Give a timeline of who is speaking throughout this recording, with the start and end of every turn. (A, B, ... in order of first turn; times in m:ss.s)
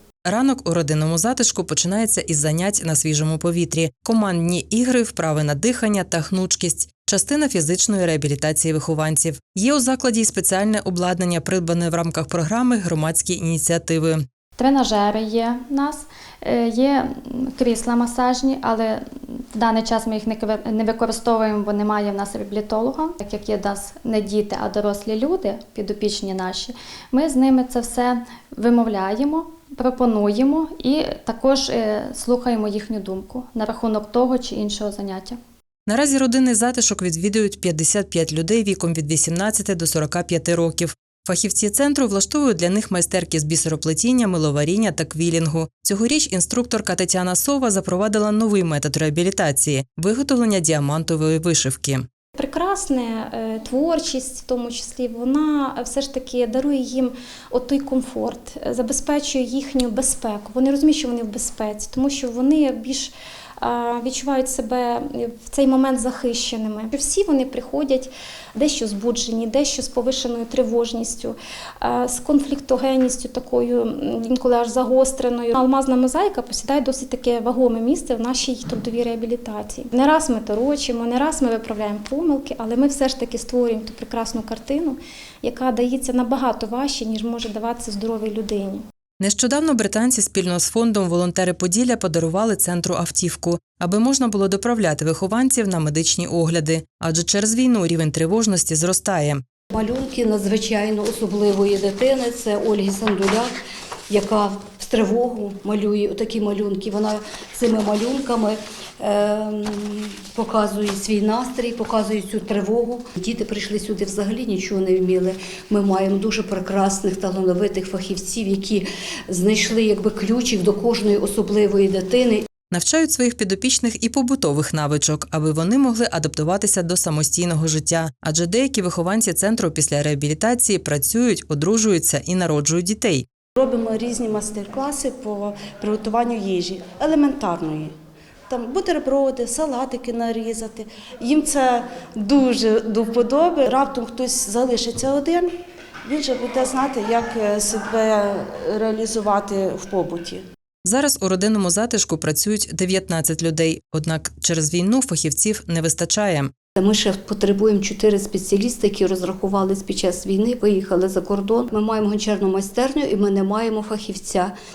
0:00.3-0:14.2 A
0:14.6-0:35.4 B
0:35.9-0:52.1 A
0:52.4-1:28.8 C
1:29.2-1:39.4 A
1:39.7-1:43.5 D
1:44.1-2:02.4 D
2:02.7-2:13.3 A
2:13.6-2:17.9 E
2:18.5-2:25.5 E
2:26.1-2:30.4 E
2:30.8-2:36.5 A
2:36.8-2:44.5 D